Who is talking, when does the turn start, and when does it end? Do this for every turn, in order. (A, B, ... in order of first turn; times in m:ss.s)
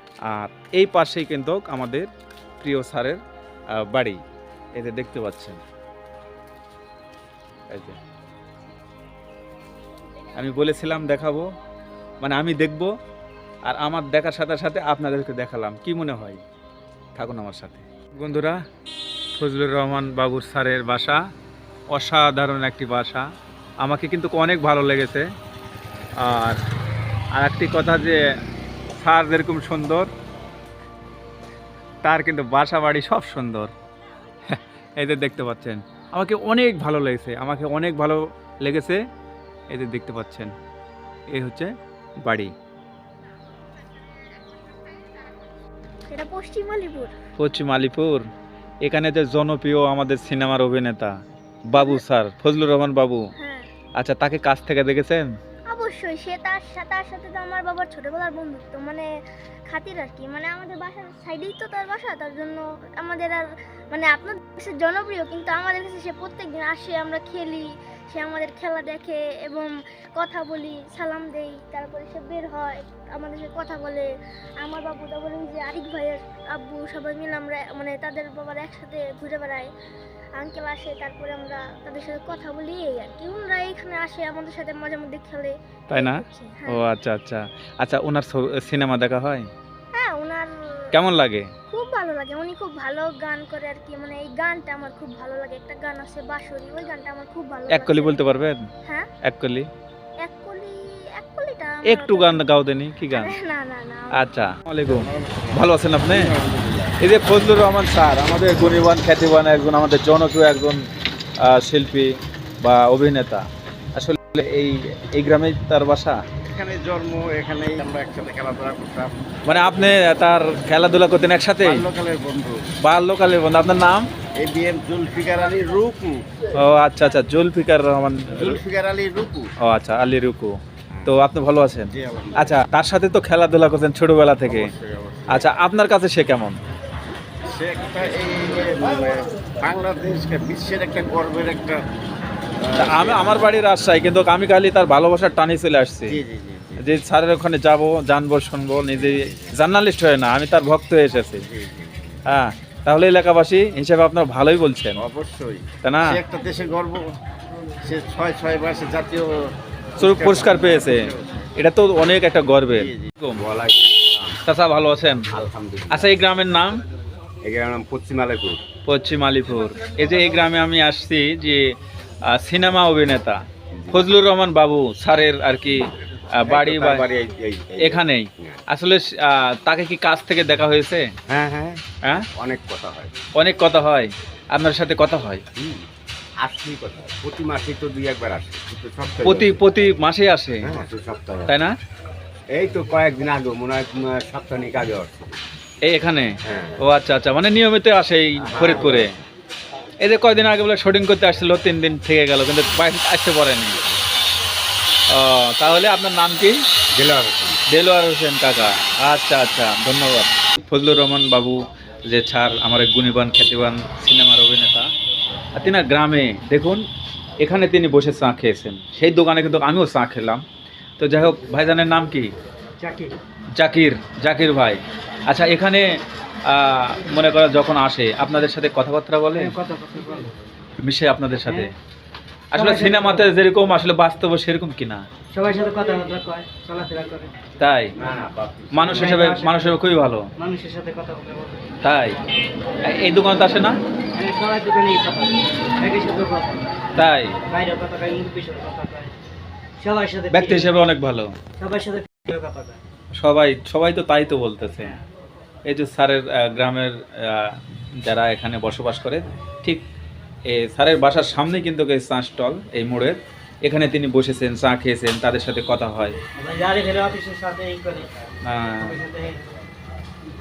0:00.3-0:02.1 A
0:02.6-0:03.2 A
0:03.7-0:04.2 A
0:04.8-0:05.6 A
0:07.7-0:08.0 A
0:10.4-0:11.5 A
0:12.2-0:12.9 A
0:13.7-0:16.4 A
0:17.1-0:18.6 A
0:19.4-0:21.2 A
0:21.9-0:23.2 A
0:23.8-0:25.2 A
0:26.2-0:26.6 A
0:27.4-0:28.2 A
0:29.0-0:30.1 A
0:32.0-0:33.7 A
0:34.5-0:39.0 A
0:39.7-0:40.5 A
0:41.3-0:42.5 A
0:46.1-0:47.1 B
0:47.4-0:48.2 A
0:48.8-0:51.1 A
0:51.7-0:53.2 A
0:51.7-0:52.0 B
0:53.4-0:53.7 B
0:54.0-0:55.2 A
0:55.7-0:59.1 B
0:59.7-1:14.1 B
1:14.6-1:19.7 B
1:20.4-1:26.9 B
1:25.9-1:29.5 A
1:29.9-1:30.5 B
1:30.9-1:31.5 A
1:31.7-1:39.1 B
1:37.7-1:38.6 A
1:39.2-1:39.7 A
1:40.2-1:42.5 B
1:41.9-1:43.3 A
1:43.1-1:44.4 B
1:44.2-1:46.4 A
1:44.9-1:46.4 C
1:47.0-1:50.8 A
1:51.4-1:53.4 A
1:54.0-1:56.2 A
1:56.5-1:59.1 C
1:59.5-2:01.8 A
2:01.6-2:02.5 C
2:02.8-2:04.0 A
2:04.4-2:06.2 C
2:06.6-2:08.6 A
2:08.4-2:09.4 C
2:09.6-2:14.7 A
2:12.0-2:12.6 C
2:14.5-2:15.5 C
2:15.3-2:16.6 A
2:17.5-2:21.8 C
2:22.7-2:23.3 C
2:22.8-2:26.2 A
2:26.1-2:26.9 C
2:26.8-2:31.4 A
2:28.9-2:29.5 C
2:31.4-2:32.2 C
2:32.3-2:35.0 A
2:35.0-2:37.0 C
2:35.8-2:36.2 A
2:37.8-2:39.3 C
2:40.0-2:43.4 A
2:40.0-2:41.3 C
2:42.7-2:44.4 C
2:44.5-2:45.2 A
2:45.3-2:46.1 C
2:45.9-2:46.8 A
2:47.4-2:48.6 C
2:48.9-2:51.7 A
2:52.3-2:53.4 A
2:53.8-2:54.1 C
2:53.9-2:55.8 A
2:56.4-2:57.1 A
2:56.4-2:58.6 C
2:57.8-3:01.1 A
3:01.3-3:01.8 C
3:02.4-3:03.1 C
3:03.4-3:05.4 A
3:05.6-3:05.8 C
3:06.4-3:09.6 C
3:09.2-3:10.8 A
3:10.6-3:11.6 C
3:11.5-3:11.7 A
3:12.5-3:15.4 C
3:15.8-3:19.1 A
3:16.4-3:16.8 C
3:18.4-3:19.1 C
3:20.0-3:23.8 A
3:25.1-3:26.5 A
3:26.9-3:27.6 C
3:27.7-3:31.6 A
3:32.1-3:34.9 A
3:35.6-3:36.8 A
3:37.4-3:40.4 A
3:41.0-3:42.3 A
3:42.8-3:43.1 D
3:43.6-3:45.9 A
3:46.5-3:49.5 A
3:49.4-3:50.3 D
3:50.8-3:51.7 A
3:51.4-3:51.7 D
3:52.5-3:55.0 A
3:52.5-3:53.3 D
3:55.3-3:57.3 D
3:57.6-3:57.9 A
3:58.0-3:59.1 C
3:58.7-4:00.2 A
3:58.9-3:59.8 D
4:00.4-4:01.7 D
4:01.8-4:02.2 A
4:02.9-4:03.8 A
4:04.1-4:06.7 D
4:07.0-4:07.3 A
4:07.5-4:09.1 D
4:09.8-4:10.6 D
4:10.3-4:11.3 A
4:11.6-4:12.8 D
4:13.2-4:15.0 A
4:15.7-4:19.8 A
4:20.5-4:26.1 A
4:26.4-4:28.1 D
4:28.4-4:29.0 A
4:28.8-4:29.4 D